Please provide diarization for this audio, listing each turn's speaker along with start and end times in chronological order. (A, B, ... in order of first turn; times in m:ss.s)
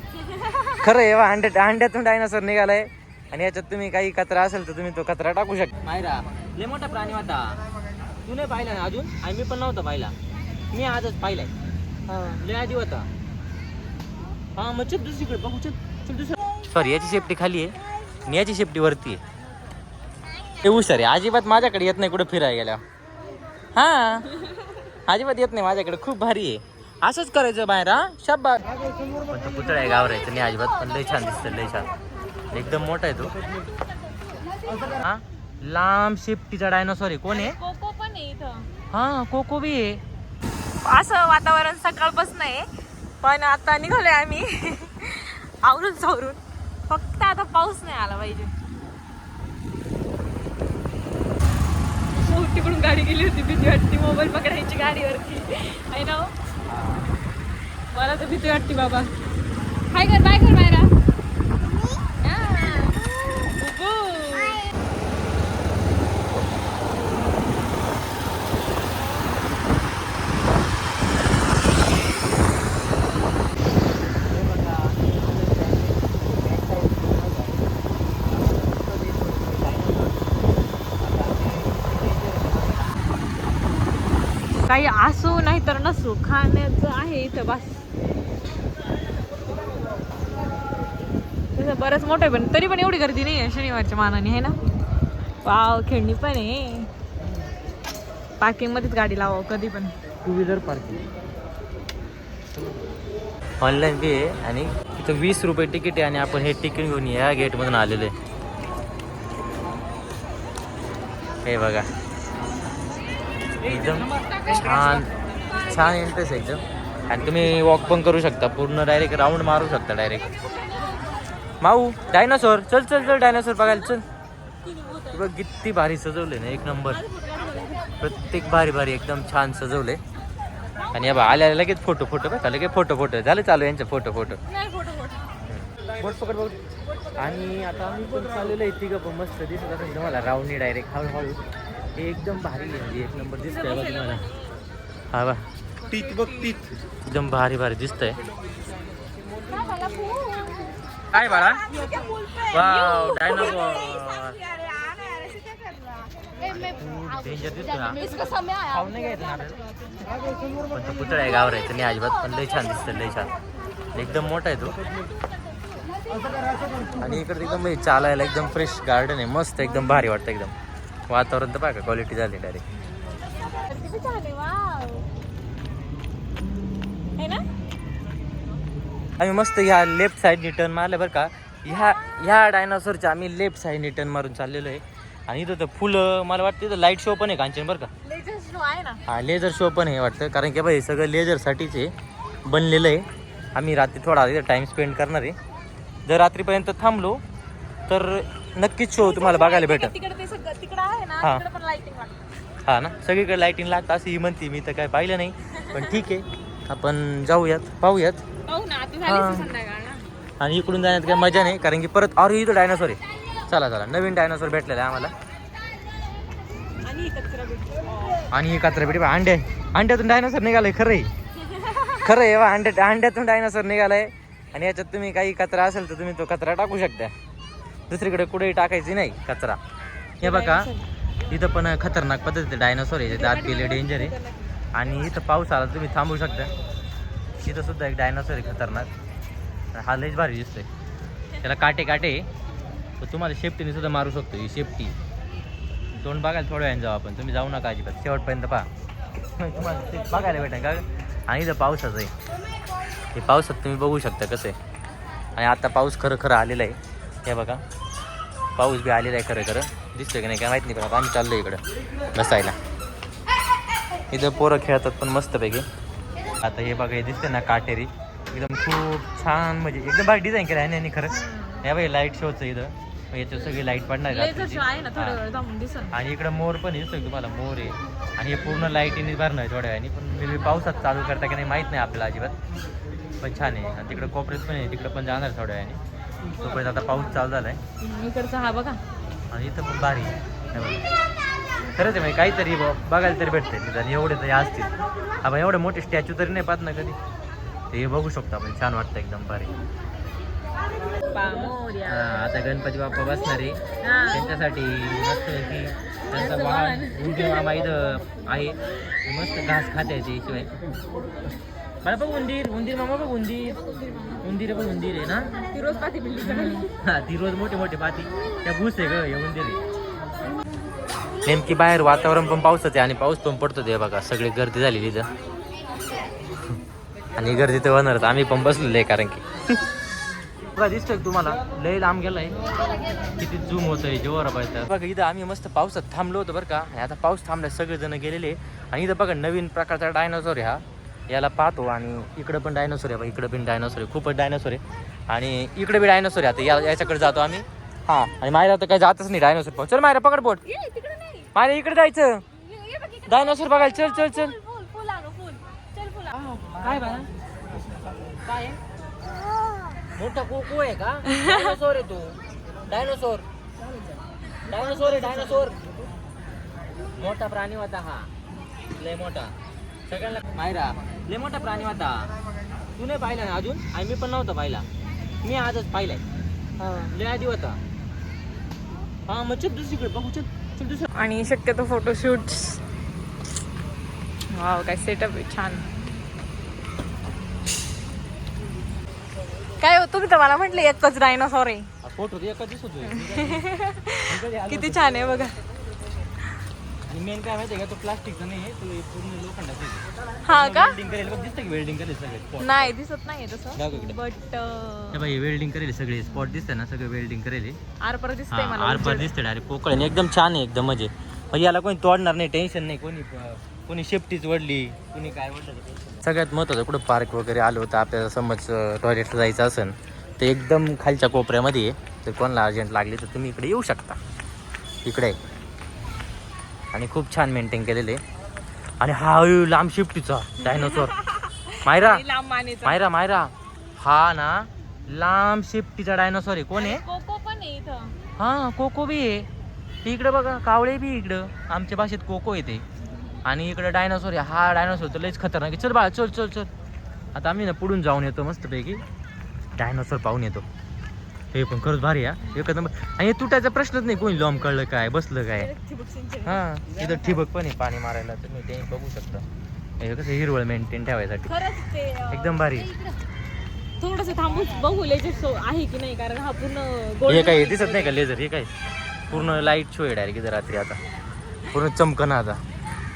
0:00.2-0:00.8 A
0:00.8-0:07.6 B
0:08.3-0:10.1 B
0:10.7-0:11.5 B
0:12.1-0:12.4 A
0:12.2-0:13.1 B
0:14.6-0:19.2 B
0:20.6-0:22.8 B
0:23.8-0:24.3 B
0:25.1-0:28.6 B
0:29.3-0:31.9 B
0:32.5-0:33.4 B
0:34.4-0:34.9 A
0:35.0-0:37.6 B
0:37.3-0:38.7 A
0:38.9-0:40.0 B
0:40.8-0:42.7 A
0:43.2-0:48.5 A
0:52.1-0:56.3 A
0:56.7-0:57.1 B
0:57.9-0:59.1 A
0:59.9-1:00.9 A
1:02.2-1:04.7 A
1:14.5-1:17.4 B
1:18.2-1:20.2 B
1:21.1-1:22.7 B
1:24.6-1:27.8 A
1:31.5-1:34.6 A
1:35.4-1:36.9 A
1:38.4-1:39.9 A
1:40.2-1:41.1 B
1:43.6-1:48.1 B
1:51.5-1:51.9 B
1:53.6-2:00.3 B
1:54.2-1:55.1 A
2:00.4-2:01.0 A
2:01.6-2:04.0 B
2:04.6-2:05.3 A
2:05.1-2:07.0 B
2:06.9-2:08.0 A
2:08.0-2:10.0 B
2:10.8-2:11.4 A
2:10.9-2:14.4 B
2:14.5-2:15.4 A
2:15.4-2:16.6 B
2:17.2-2:21.4 B
2:22.0-2:24.3 B
2:23.5-2:24.6 A
2:25.1-2:28.2 B
2:25.9-2:26.6 A
2:29.4-2:36.5 A
2:31.1-2:31.7 B
2:32.5-2:34.4 B
2:36.5-2:38.0 B
2:37.9-2:39.4 A
2:38.7-2:39.6 B
2:40.7-2:43.3 B
2:43.9-2:44.8 B
2:45.9-2:46.5 A
2:47.0-2:50.5 B
2:51.1-2:52.6 B
2:53.4-2:55.1 A
2:57.2-2:57.4 A
2:59.2-3:07.9 B
3:08.0-3:09.0 A
3:09.1-3:11.9 B
3:12.5-3:15.4 B
3:16.1-3:17.2 B
3:17.9-3:19.9 B
3:19.0-3:22.3 A
3:22.7-3:28.2 B
3:25.6-3:25.9 A
3:28.5-3:30.1 A
3:29.1-3:29.5 B
3:30.4-3:35.1 B
3:36.8-3:38.3 A
3:38.3-3:41.1 B
3:41.4-3:42.0 A
3:42.0-3:47.1 B
3:47.9-3:49.6 B
3:50.2-3:50.7 B
3:50.2-3:50.9 A
3:51.3-3:54.2 B
3:53.1-3:54.5 A
3:54.8-3:56.5 B
3:57.5-3:58.9 B
3:59.7-4:00.7 B
4:01.4-4:02.3 B
4:03.0-4:05.0 B
4:06.0-4:08.7 B
4:09.4-4:12.1 B
4:13.1-4:14.6 B
4:15.4-4:17.6 B
4:18.6-4:21.6 B
4:22.2-4:22.6 B
4:24.1-4:25.7 B
4:26.4-4:35.2 B
4:31.1-4:31.6 A
4:34.1-4:36.0 A
4:35.9-4:42.4 B
4:43.2-4:45.8 B
4:46.4-4:47.6 B
4:47.8-4:48.8 A
4:49.3-4:50.8 B
4:51.8-4:57.0 B
4:57.7-4:59.5 B
5:01.1-5:02.0 A
5:01.8-5:10.5 B
5:03.8-5:04.3 A
5:06.1-5:07.4 A
5:11.8-5:13.6 B
5:13.8-5:14.2 A
5:14.2-5:15.4 B
5:15.4-5:16.7 A
5:16.2-5:19.6 B
5:21.2-5:25.1 B
5:27.2-5:29.2 B
5:30.6-5:32.4 B
5:33.2-5:50.4 B
5:50.4-5:51.3 A
5:51.3-5:52.2 B
5:52.3-5:57.0 A
5:53.1-5:54.4 B
5:56.6-5:57.1 B
5:58.3-5:58.6 A
6:00.0-6:03.3 B
6:01.1-6:01.4 A
6:04.5-6:05.6 B
6:07.0-6:08.1 B
6:08.8-6:09.4 B
6:09.9-6:12.1 B
6:12.8-6:14.7 B
6:15.2-6:16.0 B
6:16.6-6:16.9 A
6:16.8-6:17.6 B
6:19.1-6:20.9 B
6:20.9-6:22.6 A
6:24.3-6:25.7 A
6:29.6-6:31.7 A
6:31.8-6:33.5 B
6:32.8-6:35.4 A
6:34.0-6:34.8 B
6:36.9-6:42.8 B
6:40.2-6:40.8 A
6:42.4-6:45.1 A
6:43.6-6:44.0 B
6:44.9-6:47.6 B
6:47.8-6:49.1 A
6:48.3-7:04.0 B
7:04.8-7:05.2 B
7:06.7-7:08.0 B
7:08.8-7:11.0 B
7:10.4-7:12.8 A
7:11.6-7:12.0 B
7:12.6-7:16.8 B
7:16.5-7:18.0 A
7:18.2-7:19.3 B
7:19.8-7:22.6 B
7:23.2-7:26.5 B
7:27.2-7:28.8 B
7:29.6-7:30.5 B
7:31.3-7:35.5 B
7:35.4-7:36.4 A
7:36.2-7:39.2 B
7:39.8-7:41.3 B
7:41.3-7:42.9 A
7:42.1-7:42.7 B
7:43.8-7:48.0 A
7:47.1-7:48.5 B
7:49.1-7:50.8 B
7:49.1-7:49.5 A
7:51.5-7:52.4 B